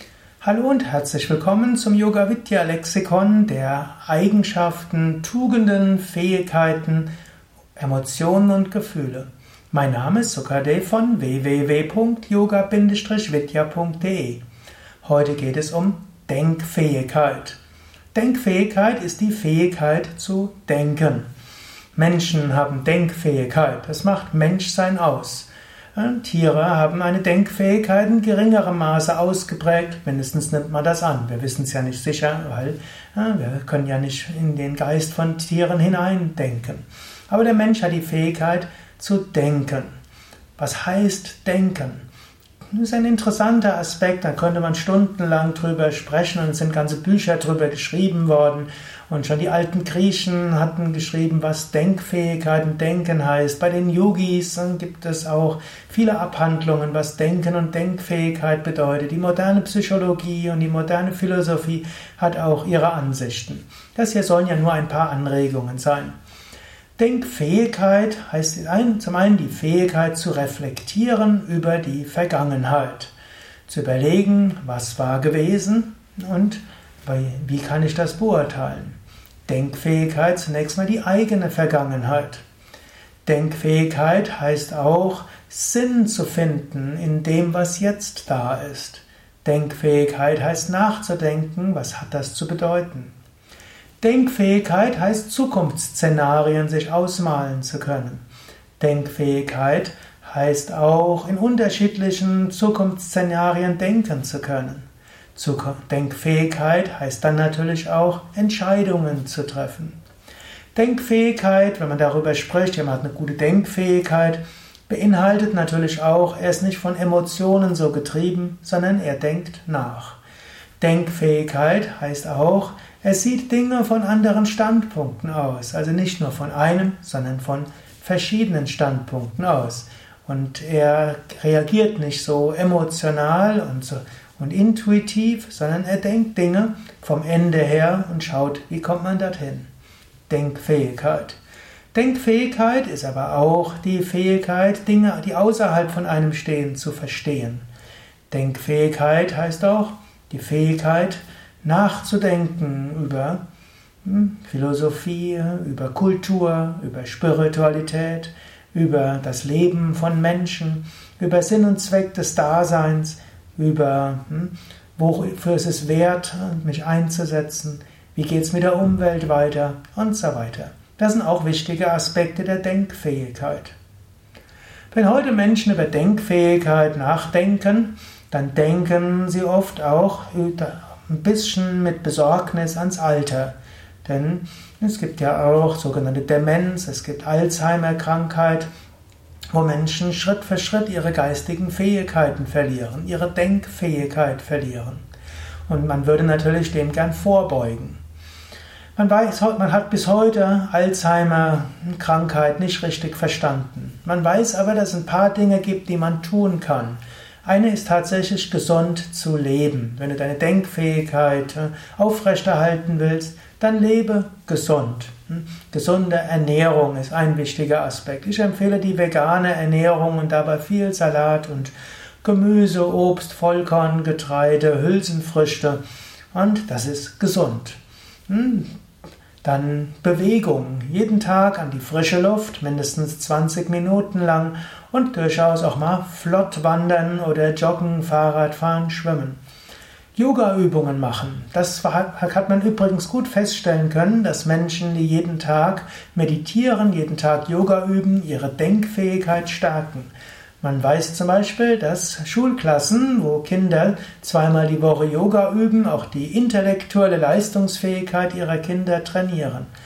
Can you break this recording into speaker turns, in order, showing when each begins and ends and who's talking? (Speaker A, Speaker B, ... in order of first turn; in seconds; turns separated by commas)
Speaker A: 0.4-7.1, Speaker A: 7.8-14.4, Speaker A: 15.0-17.6, Speaker A: 18.1-21.3, Speaker A: 22.0-39.9, Speaker A: 40.6-42.0, Speaker A: 42.7-66.2, Speaker A: 67.0-73.1, Speaker A: 73.7-82.4, Speaker A: 83.2-93.1, Speaker A: 94.0-98.2, Speaker A: 98.8-104.8, Speaker A: 105.4-110.0, Speaker A: 110.8-120.2, Speaker A: 120.8-139.7, Speaker A: 140.3-141.4, Speaker A: 141.9-147.7, Speaker A: 148.3-153.4, Speaker A: 154.0-173.8, Speaker A: 174.9-188.7, Speaker A: 189.5-195.0, Speaker A: 195.7-198.0, Speaker A: 199.0-225.8, Speaker A: 226.3-228.7, Speaker A: 229.4-239.4, Speaker A: 240.2-259.7